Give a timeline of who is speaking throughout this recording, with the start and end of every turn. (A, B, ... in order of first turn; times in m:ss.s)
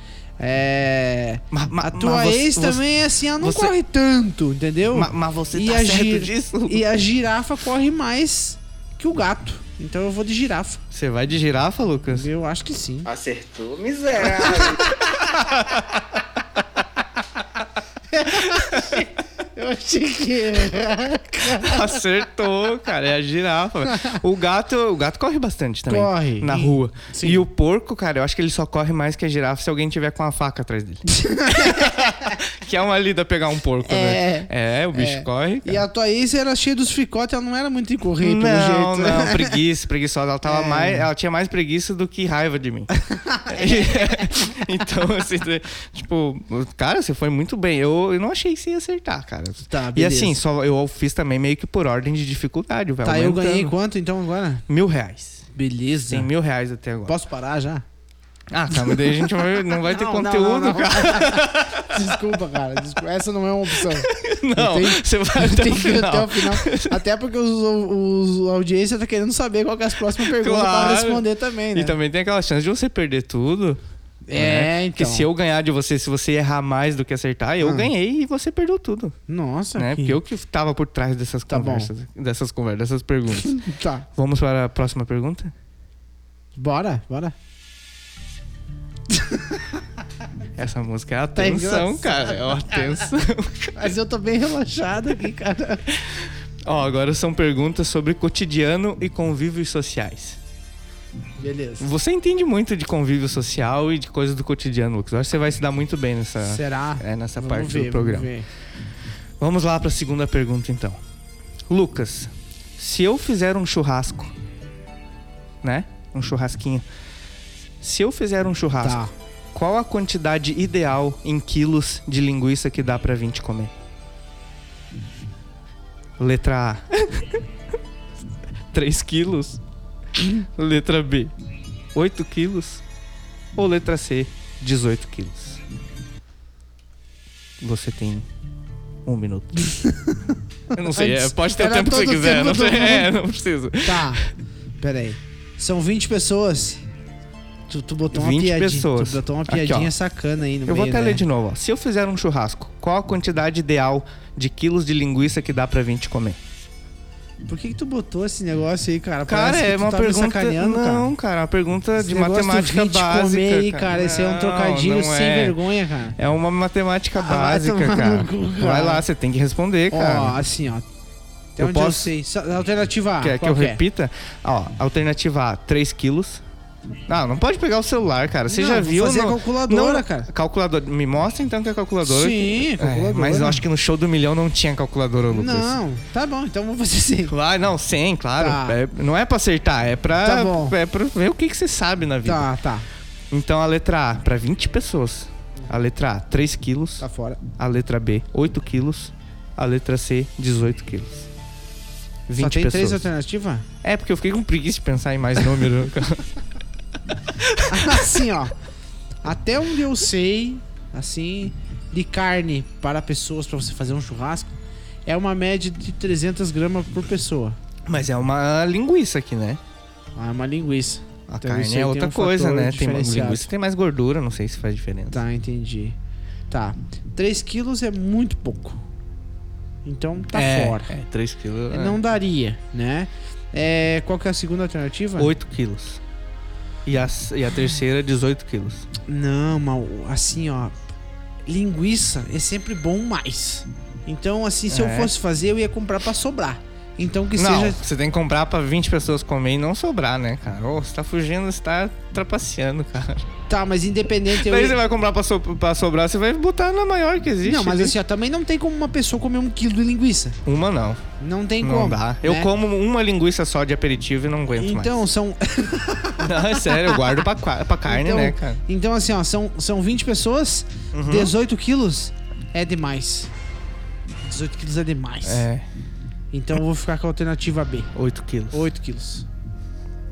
0:00.4-0:10.8 A
0:01.5-0:03.7 B
0:04.9-0:06.8 B
0:10.9-0:12.3 B
0:12.1-0:13.1 A
0:13.0-0:15.2 C
0:15.3-0:15.8 B
0:18.1-0:21.8 A
0:18.4-0:19.0 B
0:21.4-0:35.8 B
0:25.9-0:27.4 A
0:31.1-0:32.3 A
0:33.8-0:39.6 A
0:38.2-0:42.9 B
0:40.4-0:41.1 A
0:43.1-0:44.3 A
0:43.5-0:53.7 B
0:49.7-0:50.4 A
0:53.0-0:54.6 A
0:54.7-0:55.4 B
0:55.5-0:56.3 A
0:56.1-0:57.1 B
0:57.0-0:57.8 A
0:58.5-1:02.2 B
0:59.6-1:11.9 A
1:03.7-1:07.0 B
1:10.1-1:13.8 B
1:14.2-1:15.3 A
1:14.3-1:19.1 B
1:17.6-1:17.9 A
1:19.3-1:20.2 A
1:19.7-1:25.5 B
1:21.5-1:21.9 A
1:23.5-1:24.0 A
1:26.6-1:27.3 A
1:29.1-1:29.6 A
1:30.6-1:33.9 B
1:31.3-1:32.9 A
1:33.7-1:35.8 A
1:35.9-1:40.4 B
1:41.4-1:41.9 A
1:41.8-1:48.3 B
1:46.4-1:48.5 A
1:49.4-1:51.0 B
1:51.7-1:54.3 B
1:55.6-1:56.8 B
1:57.8-2:03.7 B
1:58.8-1:59.1 A
2:06.2-2:07.4 B
2:08.7-2:09.6 B
2:10.2-2:11.3 B
2:11.9-2:12.8 B
2:13.5-2:15.6 B
2:17.6-2:18.3 B
2:19.0-2:19.7 B
2:19.7-2:23.1 A
2:20.7-2:24.2 B
2:23.8-2:24.2 A
2:24.8-2:26.8 A
2:27.7-2:31.2 A
2:28.1-2:29.9 B
2:30.6-2:36.4 B
2:37.4-2:41.1 A
2:39.2-2:45.6 B
2:42.0-2:46.2 A
2:46.2-2:50.4 B
2:47.2-2:49.0 A
2:49.9-2:50.8 A
2:51.6-2:52.1 B
2:51.6-2:53.8 A
2:53.2-2:56.4 B
2:57.1-3:05.8 B
2:58.5-3:00.3 A
3:02.0-3:03.6 A
3:05.3-3:07.3 A
3:07.3-3:12.5 B
3:08.4-3:08.8 A
3:10.2-3:10.7 A
3:12.2-3:12.9 A
3:13.3-3:21.3 B
3:17.0-3:17.4 A
3:22.3-3:23.1 B
3:22.4-3:23.6 A
3:23.8-3:26.2 B
3:27.3-3:28.1 B
3:27.7-3:28.5 A
3:29.2-3:34.5 A
3:35.0-3:37.6 A
3:37.9-3:39.6 B
3:40.2-3:43.5 A
3:41.3-3:45.2 B
3:45.1-3:46.0 A
3:46.5-3:48.8 A
3:49.8-3:50.9 A
3:50.3-3:52.0 B
3:51.7-3:55.3 A
3:55.2-3:56.0 B
3:56.8-3:58.9 B
3:59.1-4:00.8 A
4:01.4-4:07.8 A
4:04.7-4:05.1 B
4:07.3-4:13.3 B
4:13.5-4:14.8 A
4:14.3-4:18.0 B
4:17.4-4:20.4 A
4:20.4-4:21.0 B
4:21.2-4:22.5 A
4:21.6-4:25.0 B
4:24.6-4:27.1 A
4:26.2-4:28.6 B
4:27.8-4:33.3 A
4:30.9-4:31.3 B
4:34.2-4:35.5 A
4:35.2-4:35.6 B
4:36.3-4:37.9 A
4:37.9-4:38.7 B
4:38.5-4:39.2 A